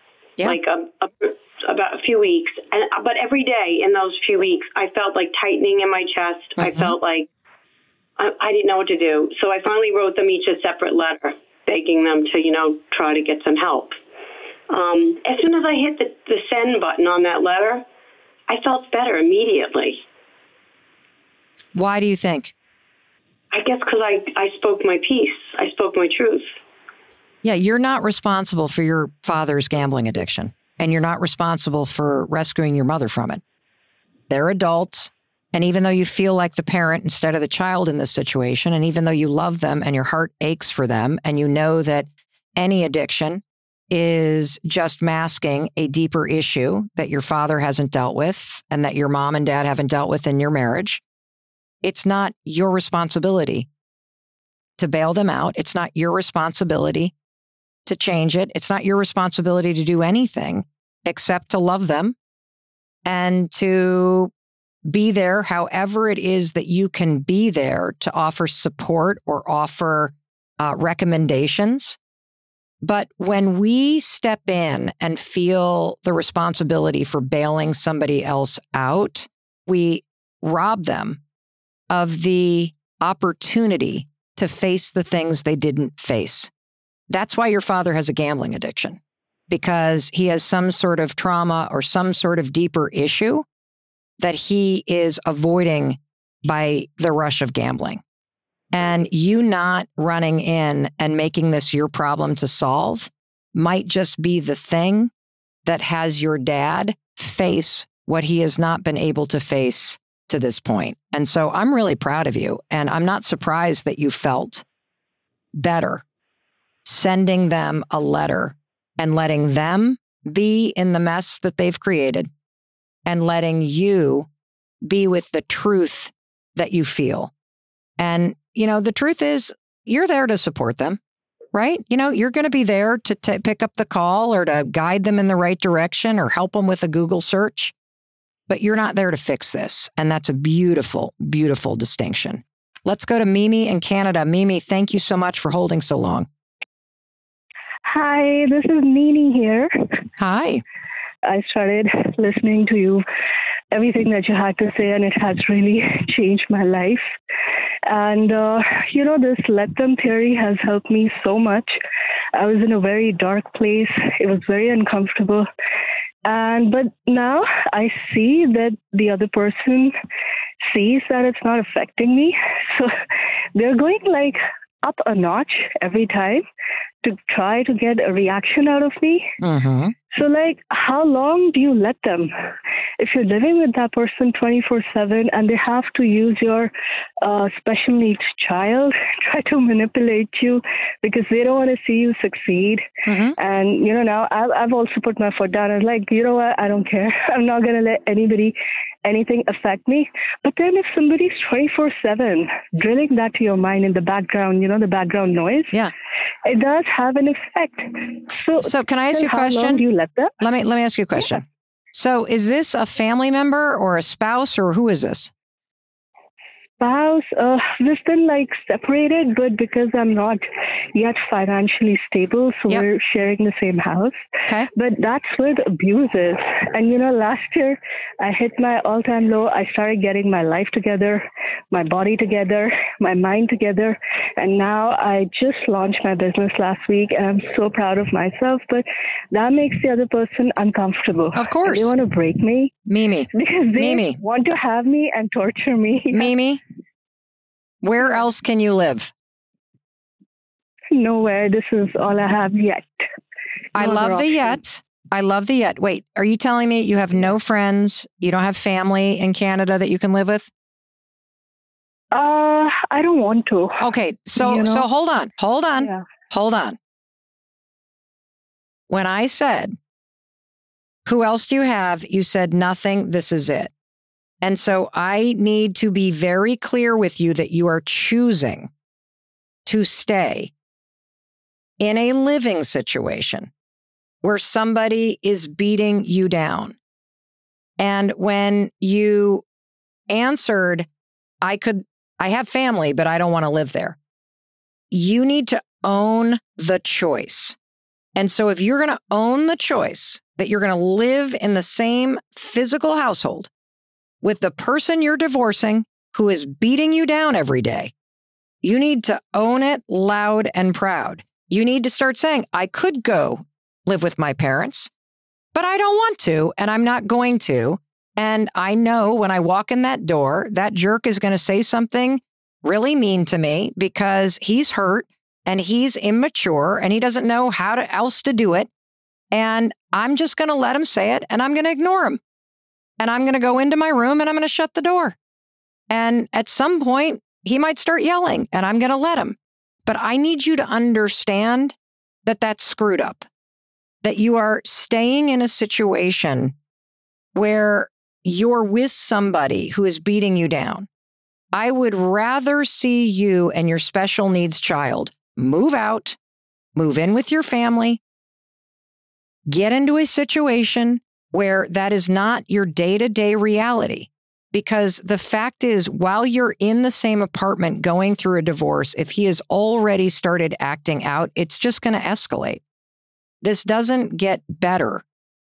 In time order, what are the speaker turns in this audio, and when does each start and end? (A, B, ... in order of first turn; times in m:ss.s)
0:00.4-0:07.3 A
0:06.6-0:07.0 B
0:08.2-0:14.0 A
0:14.7-0:17.8 A
0:18.5-0:20.0 A
0:21.8-0:22.5 B
0:23.5-0:26.5 A
0:27.4-0:33.4 B
0:34.3-0:51.0 B
0:51.8-0:53.7 B
0:54.8-0:57.1 B
0:57.9-1:02.2 B
1:03.0-1:04.3 B
1:04.9-1:12.0 B
1:12.8-1:21.2 B
1:21.9-1:26.5 B
1:27.1-1:29.0 B
1:29.5-1:33.5 B
1:34.2-1:38.0 B
1:38.7-1:45.1 B
1:45.7-1:54.6 B
1:55.6-1:56.0 B
1:56.8-2:02.3 B
2:03.1-2:04.3 B
2:04.8-2:07.3 B
2:08.0-2:11.0 B
2:11.5-2:17.7 B
2:18.5-2:26.3 B
2:27.9-2:29.7 C
2:30.2-2:30.6 B
2:31.3-2:33.0 C
2:33.7-2:37.0 C
2:37.9-2:41.8 C
2:42.4-2:45.5 C
2:46.2-2:49.9 C
2:50.7-2:52.9 C
2:53.6-2:56.4 C
2:57.0-2:59.3 C
2:59.4-2:59.9 B
3:00.1-3:02.3 C
3:03.0-3:12.8 C
3:13.1-3:13.4 B
3:13.4-3:25.7 C
3:26.5-3:30.3 C
3:28.6-3:29.8 B
3:30.4-3:35.3 B
3:36.8-3:44.2 C
3:44.7-4:02.8 C
4:01.3-4:01.9 B
4:02.9-4:04.2 B
4:03.3-4:06.3 C
4:06.1-4:06.6 B
4:07.8-4:09.1 B
4:10.9-4:13.0 C
4:13.8-4:20.5 B
4:13.8-4:14.6 C
4:22.1-4:23.8 C
4:23.8-4:26.8 B
4:24.4-4:24.9 C
4:28.9-4:29.8 B
4:31.1-4:33.7 B
4:34.4-4:38.7 B
4:39.7-4:40.5 B
4:41.8-4:43.5 B
4:44.2-4:46.8 B
4:47.8-4:49.4 B
4:50.1-4:50.9 B
4:51.4-4:54.0 B
4:54.9-4:57.6 B
4:58.2-5:03.5 B
5:04.2-5:07.9 B
5:08.6-5:14.9 B
5:15.6-5:28.7 B
5:29.3-5:32.2 B
5:33.0-5:35.2 B
5:35.9-5:41.8 B
5:42.3-5:43.3 B
5:44.0-5:46.6 B
5:47.4-5:50.9 B
5:51.5-5:56.2 B
5:56.8-5:58.0 B
5:59.5-6:12.6 B
6:13.4-6:15.0 B